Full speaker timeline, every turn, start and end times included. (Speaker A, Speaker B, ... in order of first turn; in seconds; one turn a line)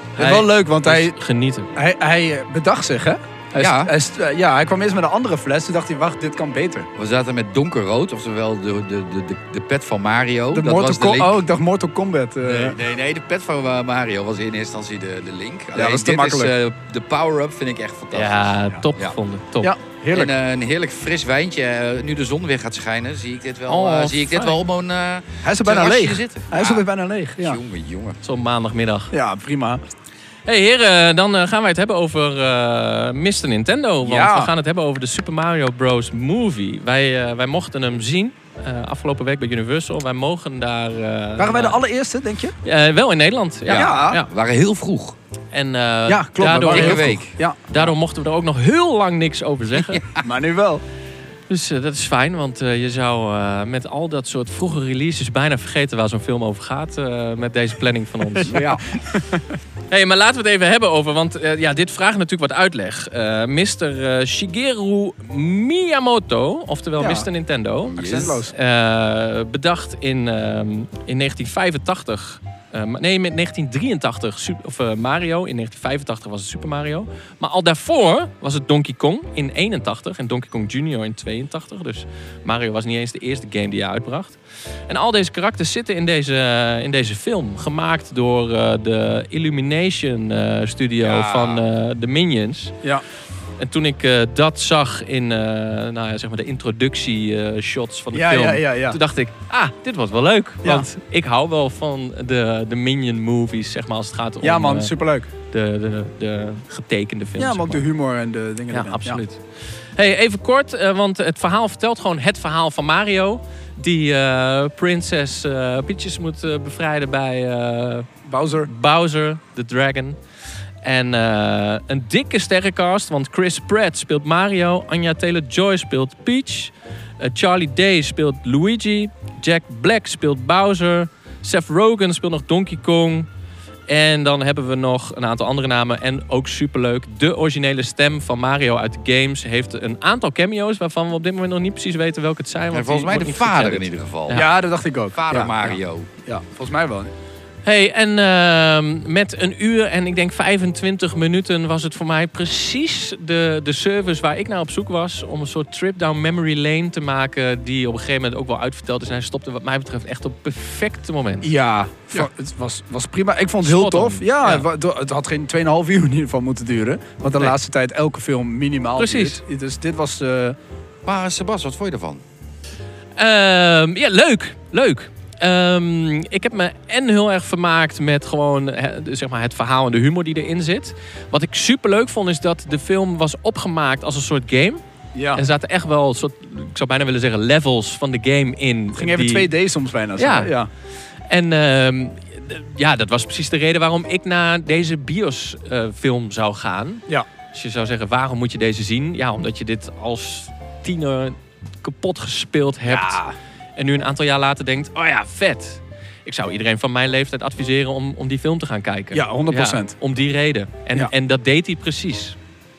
Speaker A: 0.2-1.8
Speaker B: 0.2-1.2
Speaker B: 1.8-6.9
Speaker C: 3.6-3.9
Speaker C: 7.0-11.4
Speaker B: 10.5-12.8
Speaker C: 12.4-18.4
Speaker B: 15.8-16.5
Speaker A: 18.1-19.7
Speaker B: 19.6-20.3
Speaker C: 20.1-26.9
Speaker A: 23.7-24.6
Speaker B: 25.4-27.6
Speaker C: 27.4-28.2
Speaker A: 28.2-29.1
Speaker B: 29.1-29.8
Speaker A: 30.5-41.8
Speaker B: 34.0-34.5
Speaker B: 41.4-42.5
Speaker A: 42.6-44.3
Speaker C: 43.7-45.2
Speaker B: 43.7-44.2
Speaker A: 45.5-50.0
Speaker B: 46.1-47.9
Speaker C: 46.5-47.3
Speaker C: 49.8-50.2
Speaker B: 50.2-50.8
Speaker A: 51.5-58.7
Speaker B: 58.4-59.5
Speaker A: 59.9-92.8
Speaker B: 67.0-67.3
Speaker C: 67.9-68.4
Speaker B: 68.0-68.5
Speaker C: 91.0-91.7
Speaker A: 93.6-104.9
Speaker B: 98.1-99.0
Speaker B: 104.4-105.3
Speaker A: 105.5-107.8
Speaker B: 107.4-109.2
Speaker A: 108.7-109.4
Speaker A: 110.0-118.1
Speaker B: 118.3-118.7
Speaker A: 118.6-120.2
Speaker A: 120.8-133.3
Speaker A: 133.9-144.5
Speaker C: 142.7-144.5
Speaker B: 144.3-145.6
Speaker C: 145.1-146.1
Speaker B: 146.2-147.1
Speaker A: 147.7-161.5
Speaker B: 161.4-170.6
Speaker A: 163.6-164.7
Speaker A: 169.0-169.4
Speaker C: 171.1-172.2
Speaker A: 173.2-184.8
Speaker B: 185.2-185.4
Speaker A: 185.3-189.5
Speaker B: 189.0-190.7
Speaker A: 190.2-190.5
Speaker A: 191.3-203.2
Speaker C: 202.9-203.3
Speaker A: 203.8-212.4
Speaker B: 209.1-209.9